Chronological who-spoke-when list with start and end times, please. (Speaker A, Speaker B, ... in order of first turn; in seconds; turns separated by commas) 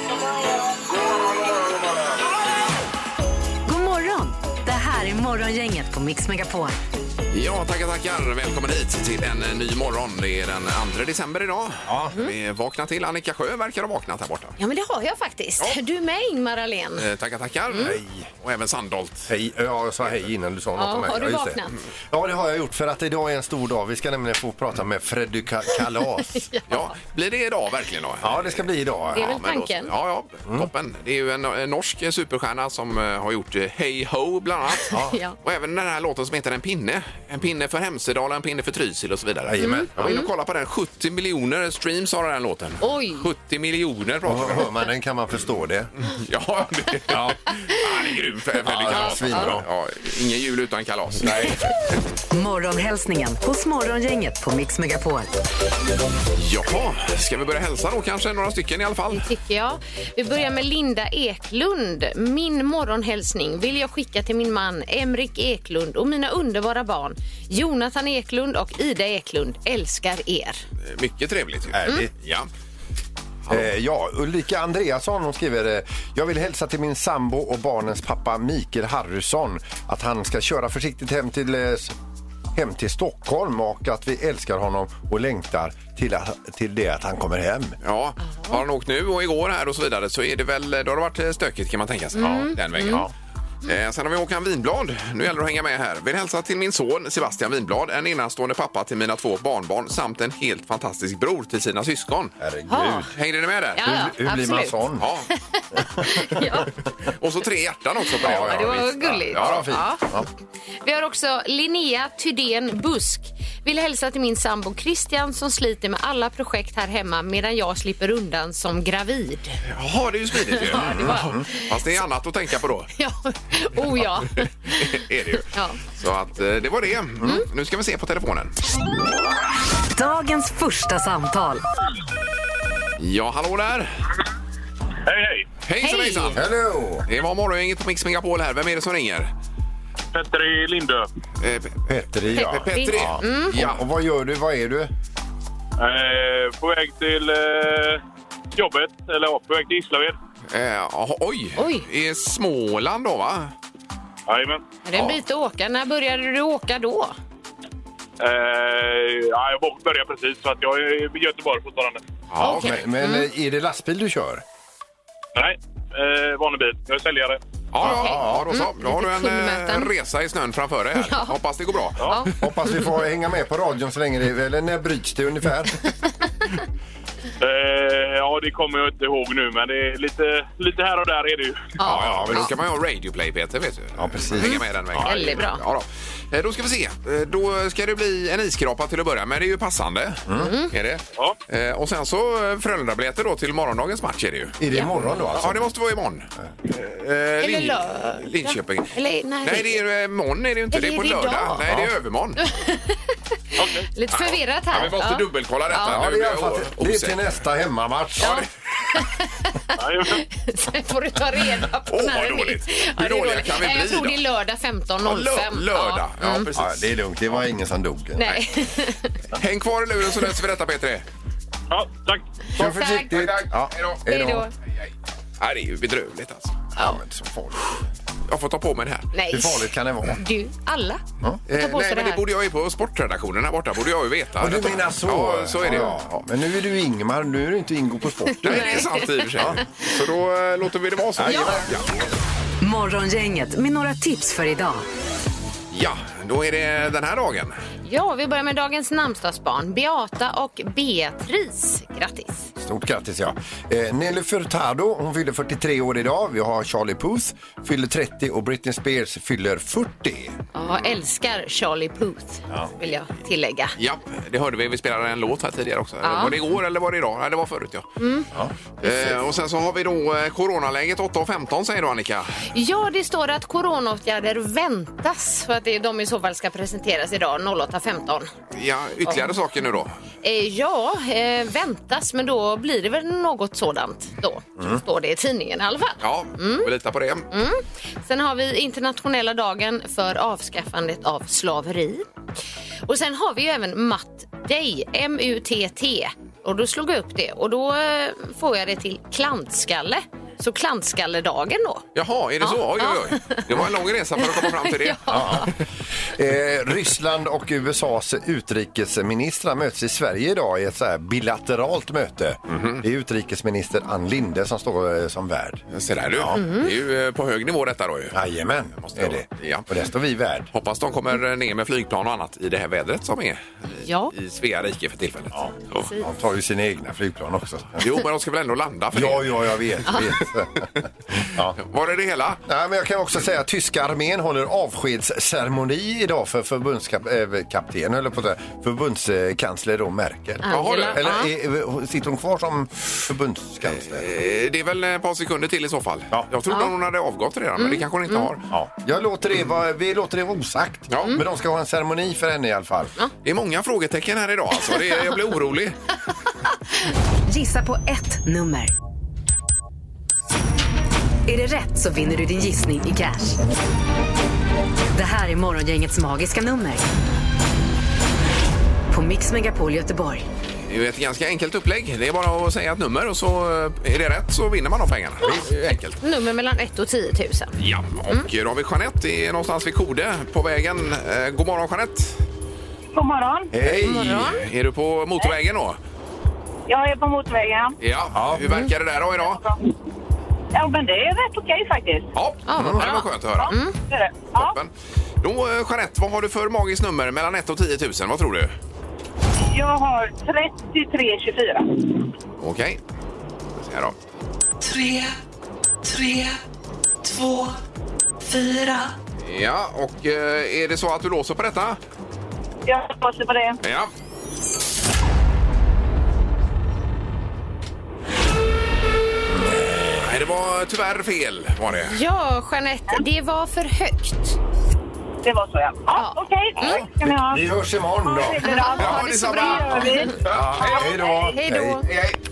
Speaker A: 3.6-6.8, Speaker B: 7.3-14.6, Speaker C: 11.9-12.1, Speaker D: 14.6-17.0, Speaker B: 17.0-19.3, Speaker C: 17.8-18.3, Speaker C: 19.3-26.4, Speaker D: 20.8-21.8, Speaker D: 26.3-26.9, Speaker B: 26.7-28.6, Speaker C: 28.2-29.3, Speaker D: 29.1-29.9, Speaker B: 29.1-44.7, Speaker D: 34.8-35.4, Speaker C: 34.9-35.2, Speaker C: 39.5-40.1, Speaker D: 39.6-40.3, Speaker D: 42.8-43.3, Speaker C: 44.2-45.9, Speaker B: 46.0-51.9, Speaker C: 47.1-47.4, Speaker C: 48.6-49.6, Speaker D: 48.9-49.5, Speaker A: 52.3-55.3, Speaker B: 56.3-59.2, Speaker D: 59.1-70.6, Speaker B: 70.8-72.5, Speaker C: 71.7-72.1, Speaker C: 73.5-81.9, Speaker C: 82.5-87.8, Speaker B: 87.8-93.1, Speaker D: 88.2-88.6, Speaker D: 92.1-93.0, Speaker C: 92.2-93.1, Speaker B: 93.6-102.3, Speaker C: 102.4-103.1, Speaker D: 102.7-103.1, Speaker B: 103.1-103.8, Speaker D: 103.8-106.7, Speaker C: 103.8-105.1, Speaker B: 105.0-105.3, Speaker C: 105.8-106.2, Speaker B: 107.0-109.7, Speaker D: 108.2-110.1, Speaker C: 108.2-110.3, Speaker D: 110.8-119.6, Speaker B: 119.6-122.9, Speaker D: 120.5-121.8, Speaker C: 120.7-121.5, Speaker D: 122.9-124.8, Speaker B: 124.3-128.5, Speaker D: 125.5-125.8, Speaker A: 129.9-131.6, Speaker B: 133.0-133.9, Speaker E: 135.1-135.4, Speaker B: 135.6-136.5, Speaker D: 135.8-136.4, Speaker C: 136.3-137.1, Speaker B: 137.1-139.3, Speaker E: 140.1-141.1, Speaker B: 141.4-143.8, Speaker C: 141.9-144.9, Speaker D: 142.3-143.5, Speaker E: 145.8-148.0, Speaker E: 148.6-150.2, Speaker B: 150.5-153.5, Speaker D: 151.6-151.8, Speaker E: 154.3-154.6, Speaker D: 154.8-157.1, Speaker E: 158.2-162.0, Speaker B: 162.3-162.8, Speaker D: 162.4-163.3, Speaker C: 162.4-164.4, Speaker E: 165.3-167.4, Speaker B: 167.7-172.3, Speaker D: 167.8-169.9, Speaker C: 167.8-168.5, Speaker D: 171.0-171.4, Speaker D: 172.0-172.8, Speaker C: 172.4-175.8, Speaker E: 177.4-181.8, Speaker D: 181.8-182.5, Speaker B: 181.8-202.4, Speaker C: 184.0-185.1, Speaker D: 184.4-185.6, Speaker C: 190.3-190.5, Speaker D: 190.3-190.7, Speaker C: 194.6-195.7, Speaker D: 197.4-199.8, Speaker D: 200.7-201.6, Speaker C: 201.5-201.9, Speaker D: 202.4-206.0, Speaker E: 203.6-203.9, Speaker B: 204.1-207.2, Speaker C: 205.8-208.4, Speaker D: 208.2-216.5, Speaker E: 209.8-210.2, Speaker B: 211.9-214.2, Speaker B: 215.0-216.9, Speaker C: 216.6-218.2, Speaker D: 218.2-219.1, Speaker B: 219.3-221.0, Speaker E: 221.7-222.2, Speaker D: 222.5-223.3, Speaker C: 222.6-224.4, Speaker B: 223.1-224.0, Speaker D: 224.1-224.5, Speaker B: 224.8-226.6, Speaker C: 226.7-227.8, Speaker B: 228.3-229.1, Speaker D: 229.1-232.2, Speaker C: 229.3-230.2, Speaker B: 231.5-236.1, Speaker C: 234.4-238.8, Speaker D: 238.3-239.7, Speaker B: 238.4-241.9, Speaker C: 241.2-241.8, Speaker D: 241.2-241.5, Speaker A: 242.6-244.8, Speaker B: 245.7-247.6, Speaker D: 247.8-252.5, Speaker C: 252.6-260.4, Speaker D: 260.5-263.8, Speaker C: 262.5-262.7, Speaker B: 263.8-267.9, Speaker D: 266.0-266.4, Speaker D: 268.0-268.3, Speaker C: 268.3-269.2, Speaker B: 268.8-272.4, Speaker D: 272.5-278.3, Speaker B: 278.5-279.9, Speaker D: 280.2-286.7, Speaker B: 286.0-287.3, Speaker D: 287.3-292.1, Speaker D: 292.9-301.8, Speaker B: 301.9-305.5, Speaker D: 302.4-303.6, Speaker D: 304.2-305.5, Speaker C: 305.1-316.4, Speaker B: 312.5-312.8, Speaker B: 315.7-318.1, Speaker D: 316.3-316.7, Speaker C: 318.1-320.5, Speaker B: 318.8-319.7, Speaker B: 320.5-325.9, Speaker D: 323.8-324.1, Speaker C: 325.3-327.9, Speaker B: 327.8-330.0, Speaker C: 328.9-331.6, Speaker B: 331.6-332.4, Speaker C: 332.5-344.1, Speaker D: 340.4-341.3, Speaker B: 340.5-341.1, Speaker B: 343.6-348.5, Speaker D: 346.5-346.7, Speaker D: 347.6-348.3, Speaker C: 348.5-352.9, Speaker B: 350.9-351.2, Speaker B: 353.2-355.8, Speaker A: 357.3-358.7, Speaker A: 361.3-363.4, Speaker A: 364.9-366.8, Speaker A: 368.9-370.2, Speaker B: 370.7-376.0, Speaker C: 375.2-375.5, Speaker D: 376.0-377.6, Speaker B: 377.6-382.2, Speaker F: 382.9-383.5, Speaker C: 383.5-384.3, Speaker B: 383.8-385.8, Speaker D: 383.8-384.4, Speaker F: 386.7-387.8, Speaker B: 387.8-389.4, Speaker C: 388.1-388.4, Speaker F: 388.9-389.7, Speaker F: 390.5-392.1, Speaker B: 392.1-393.5, Speaker D: 392.5-393.8, Speaker C: 392.6-392.8, Speaker F: 393.4-394.5, Speaker B: 394.3-398.5, Speaker F: 399.5-402.1, Speaker B: 402.4-402.8, Speaker B: 403.6-403.9, Speaker G: 404.6-405.1, Speaker G: 405.8-406.4, Speaker G: 407.0-407.6, Speaker G: 408.2-408.9, Speaker B: 409.2-411.8, Speaker F: 412.6-413.6, Speaker B: 413.6-413.9, Speaker C: 419.3-420.1, Speaker B: 420.0-422.0, Speaker D: 421.9-424.4, Speaker F: 425.2-427.5, Speaker D: 425.9-426.8, Speaker B: 426.6-426.9, Speaker C: 427.1-428.5, Speaker F: 428.0-431.3, Speaker D: 428.4-430.2, Speaker B: 428.8-431.1, Speaker C: 430.2-431.8, Speaker D: 431.3-431.9, Speaker B: 431.8-432.2